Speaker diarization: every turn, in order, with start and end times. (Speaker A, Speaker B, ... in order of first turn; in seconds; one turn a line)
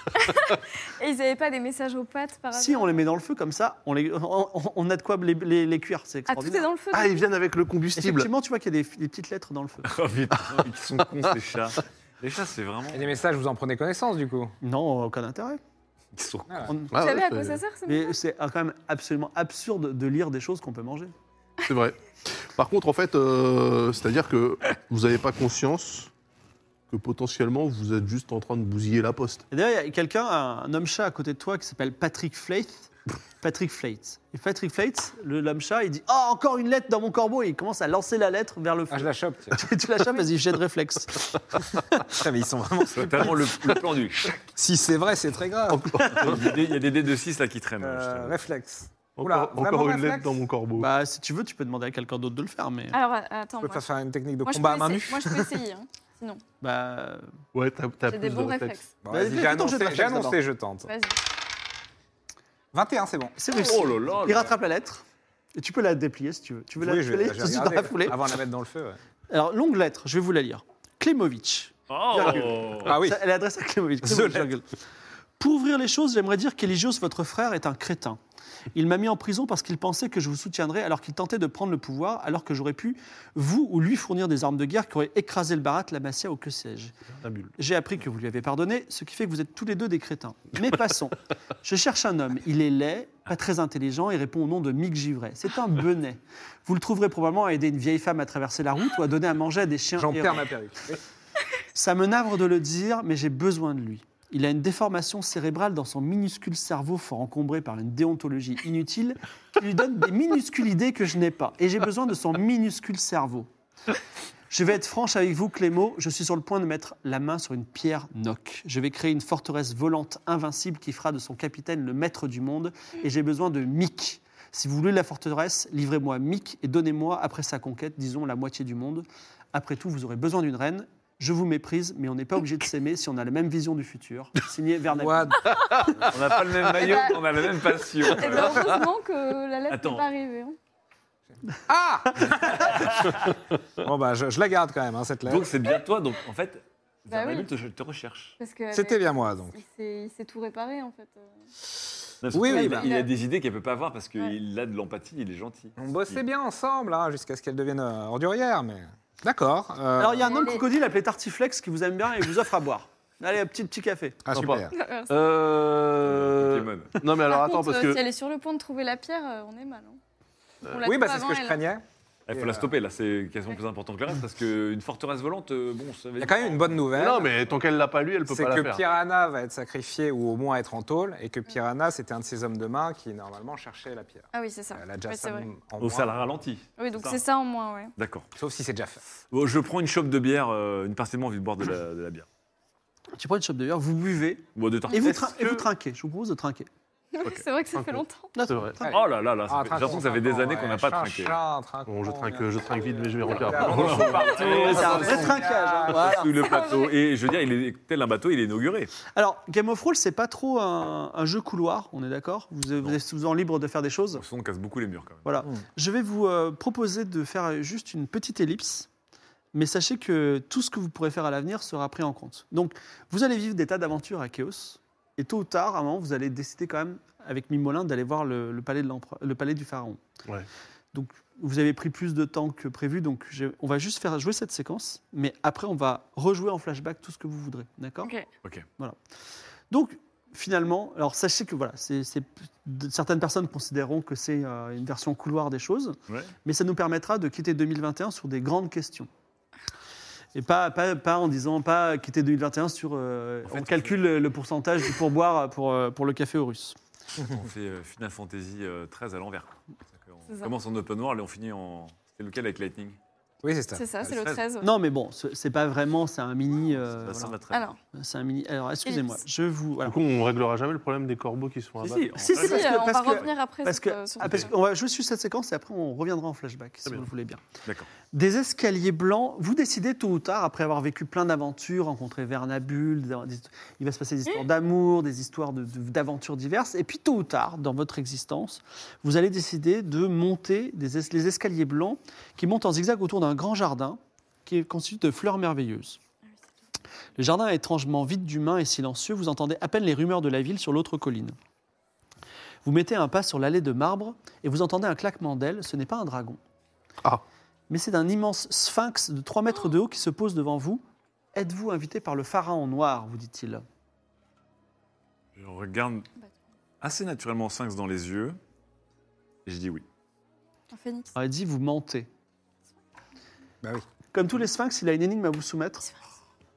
Speaker A: 0.1-3.0
Speaker B: 2.5-6.7
Speaker A: 6.3-7.2
Speaker C: 6.9-8.3
Speaker B: 8.0-9.9
Speaker D: 9.8-13.2
Speaker E: 12.9-14.6
Speaker B: 14.6-15.6
Speaker D: 16.1-16.8
Speaker E: 16.5-16.7
Speaker B: 16.7-16.9
Speaker C: 16.9-17.6
Speaker A: 17.0-18.2
Speaker B: 17.9-21.1
Speaker C: 21.7-26.1
Speaker C: 26.9-29.4
Speaker B: 29.5-41.6
Speaker E: 38.9-39.6
Speaker E: 42.1-43.5
Speaker D: 42.9-44.4
Speaker E: 44.4-46.5
Speaker C: 45.7-46.7
Speaker D: 46.1-48.4
Speaker E: 47.8-50.4
Speaker C: 49.2-50.9
Speaker B: 50.8-53.0
Speaker A: 52.9-53.8
Speaker E: 53.6-55.6
Speaker A: 54.5-56.4
Speaker B: 56.6-57.3
Speaker C: 57.5-58.8
Speaker A: 58.1-58.9
Speaker E: 59.0-60.9
Speaker B: 59.1-60.4
Speaker A: 60.9-61.2
Speaker E: 62.7-63.4
Speaker B: 63.4-65.0
Speaker D: 63.6-64.6
Speaker B: 65.5-68.3
Speaker E: 66.8-69.0
Speaker B: 69.3-74.7
Speaker D: 71.9-72.9
Speaker E: 72.8-73.2
Speaker E: 74.0-74.5
Speaker B: 75.4-78.2
Speaker B: 78.7-87.0
Speaker C: 87.2-87.5
Speaker B: 87.6-100.5
Speaker E: 100.0-101.0
Speaker B: 101.8-113.5
Speaker B: 114.5-135.6
Speaker E: 134.9-135.5
Speaker C: 135.6-136.2
Speaker D: 136.1-138.8
Speaker C: 136.7-137.0
Speaker A: 136.7-140.6
Speaker D: 139.7-140.1
Speaker E: 141.7-142.9
Speaker D: 142.7-143.3
Speaker E: 143.8-145.5
Speaker D: 145.3-148.3
Speaker A: 147.1-147.5
Speaker A: 148.4-151.3
Speaker E: 148.7-149.6
Speaker D: 152.2-156.2
Speaker E: 152.3-152.9
Speaker A: 152.4-153.1
Speaker E: 155.8-160.3
Speaker B: 160.0-164.2
Speaker A: 160.2-160.7
Speaker E: 164.2-164.7
Speaker C: 164.3-168.0
Speaker A: 164.7-165.2
Speaker D: 166.1-166.9
Speaker A: 167.2-170.0
Speaker A: 170.7-171.6
Speaker E: 170.8-172.7
Speaker D: 172.3-176.9
Speaker E: 176.2-177.3
Speaker C: 177.0-178.8
Speaker E: 178.3-186.4
Speaker A: 184.3-185.5
Speaker D: 185.8-187.2
Speaker A: 186.8-187.9
Speaker D: 188.0-188.3
Speaker E: 188.3-189.0
Speaker D: 189.3-192.3
Speaker B: 193.2-196.7
Speaker D: 194.5-195.1
Speaker C: 195.0-195.7
Speaker A: 197.1-198.4
Speaker C: 197.7-198.8
Speaker B: 198.3-199.0
Speaker E: 198.8-206.2
Speaker D: 198.9-201.4
Speaker C: 201.9-205.3
Speaker D: 203.4-208.9
Speaker B: 204.7-206.3
Speaker A: 206.4-206.9
Speaker B: 209.1-214.2
Speaker D: 214.2-215.2
Speaker B: 215.2-218.9
Speaker B: 219.5-230.0
Speaker B: 230.9-238.1
Speaker B: 239.7-249.1
Speaker B: 250.3-256.8
Speaker D: 253.5-254.0
Speaker D: 257.3-263.0
Speaker E: 263.4-264.2
Speaker A: 263.8-264.7
Speaker B: 264.6-267.4
Speaker D: 267.0-267.7
Speaker A: 267.5-267.8
Speaker B: 267.9-270.0
Speaker A: 268.9-269.2
Speaker C: 269.9-272.2
Speaker D: 271.8-272.7
Speaker B: 272.1-277.4
Speaker A: 272.4-274.5
Speaker B: 278.1-296.0
Speaker B: 297.2-301.4
Speaker B: 302.6-306.4
Speaker B: 307.7-310.8
Speaker B: 311.4-313.6
Speaker D: 315.4-316.1
Speaker D: 316.8-318.4
Speaker D: 319.5-319.8
Speaker A: 320.7-321.1
Speaker B: 321.1-322.1
Speaker B: 324.1-325.9